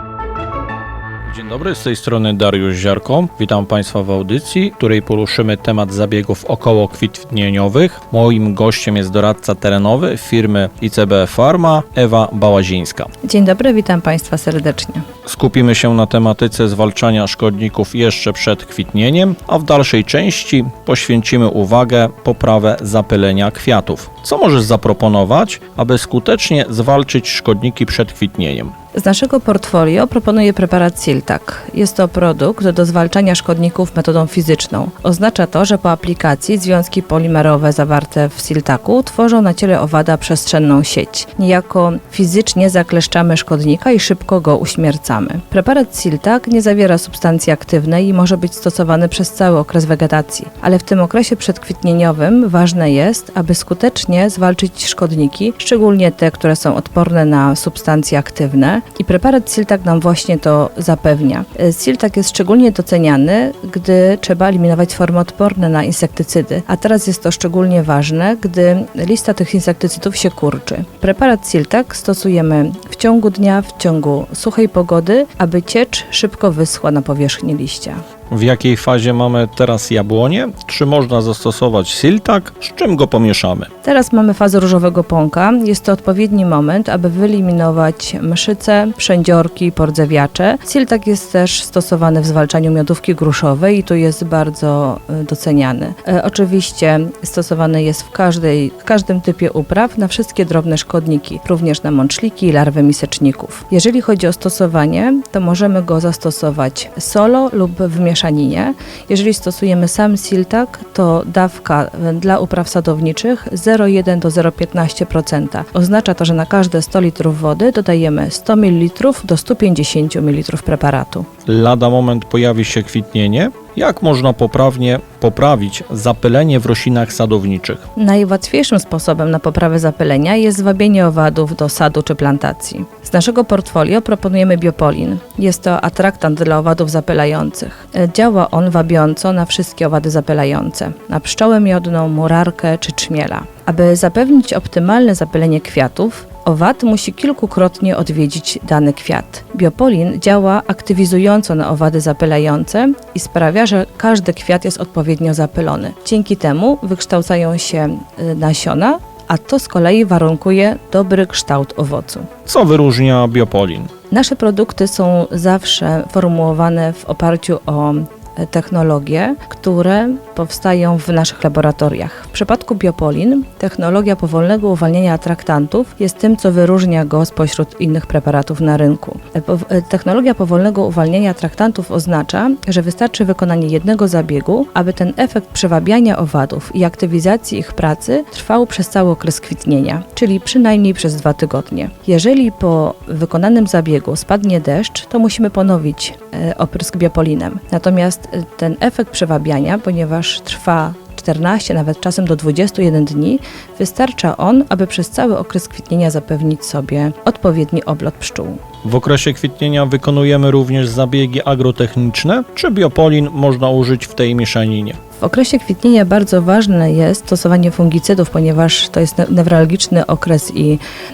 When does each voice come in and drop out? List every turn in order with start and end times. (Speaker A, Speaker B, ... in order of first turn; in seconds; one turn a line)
Speaker A: 1.3-13.1
Speaker B: 13.2-15.0
Speaker A: 15.3-28.7
Speaker B: 28.9-78.0
Speaker A: 78.3-83.7
Speaker B: 83.8-121.3
Speaker A: 121.5-127.8
Speaker B: 128.0-162.3
Speaker A: 162.5-163.9
Speaker B: 164.1-208.6
Speaker A: 208.8-215.0
Speaker B: 215.2-220.8